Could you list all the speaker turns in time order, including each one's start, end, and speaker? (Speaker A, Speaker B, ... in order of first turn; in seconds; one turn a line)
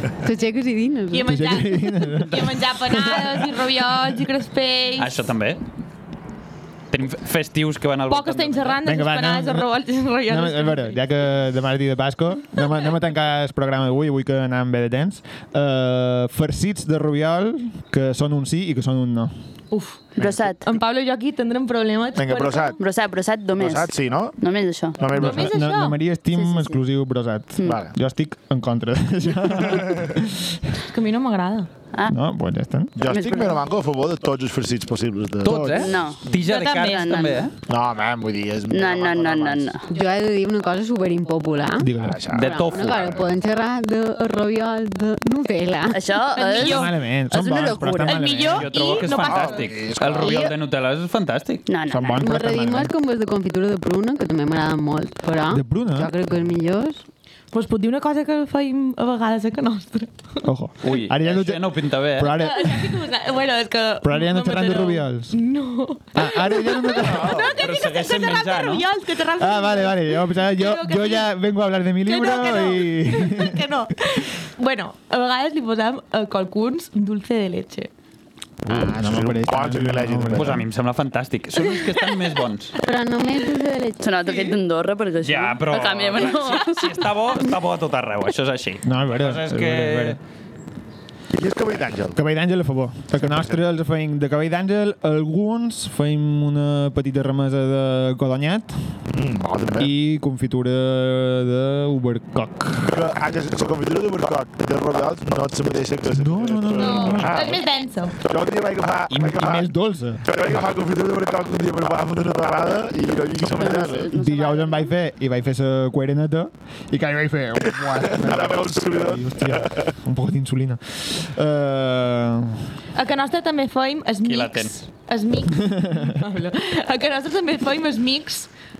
Speaker A: 0.2-1.3
Speaker B: 1.1-5.3
Speaker C: 1.2-3.2
Speaker D: 5.0-5.6
Speaker D: 6.9-8.8
Speaker B: 8.1-11.0
Speaker C: 8.8-9.7
Speaker C: 10.2-19.4
Speaker B: 19.7-22.8
Speaker E: 20.2-20.5
Speaker F: 20.2-20.6
Speaker E: 22.1-22.8
Speaker F: 22.8-25.0
Speaker E: 23.6-24.4
Speaker E: 25.0-25.6
Speaker B: 25.1-26.0
Speaker C: 25.2-30.6
Speaker F: 26.3-26.8
Speaker F: 27.6-27.8
Speaker E: 27.6-27.9
Speaker B: 30.8-31.7
Speaker C: 32.1-33.0
Speaker E: 33.0-35.7
Speaker F: 33.0-33.6
Speaker D: 35.4-37.5
Speaker C: 35.4-36.0
Speaker F: 35.8-37.5
Speaker B: 36.5-37.3
Speaker E: 37.7-39.8
Speaker F: 38.7-39.8
Speaker A: 39.9-41.9
Speaker C: 41.8-42.2
Speaker E: 42.0-43.4
Speaker D: 42.3-43.1
Speaker A: 42.5-46.0
Speaker F: 45.9-48.2
Speaker B: 46.3-46.9
Speaker C: 46.6-48.7
Speaker B: 48.0-49.7
Speaker D: 48.5-51.7
Speaker E: 49.1-50.5
Speaker F: 51.7-52.2
Speaker C: 51.9-52.9
Speaker A: 52.2-57.0
Speaker C: 55.5-56.1
Speaker B: 57.5-60.4
Speaker C: 60.4-63.0
Speaker D: 60.8-62.4
Speaker B: 62.3-71.3
Speaker C: 64.0-65.4
Speaker C: 66.1-67.5
Speaker E: 67.0-67.5
Speaker D: 67.5-68.8
Speaker C: 69.4-73.6
Speaker B: 72.0-77.9
Speaker E: 78.6-80.6
Speaker C: 78.7-80.6
Speaker D: 80.3-82.7
Speaker A: 82.8-84.0
Speaker F: 84.0-87.0
Speaker D: 85.2-90.2
Speaker C: 88.8-90.2
Speaker E: 91.3-92.2
Speaker C: 92.1-98.9
Speaker E: 93.3-93.5
Speaker E: 99.1-99.9
Speaker C: 99.8-103.0
Speaker E: 102.8-107.6
Speaker C: 106.2-107.4
Speaker B: 106.7-108.2
Speaker E: 108.2-114.1
Speaker C: 109.2-110.2
Speaker F: 112.9-114.9
Speaker C: 114.1-122.7
Speaker E: 117.8-119.9
Speaker B: 122.9-128.5
Speaker D: 124.2-124.8
Speaker C: 125.7-126.0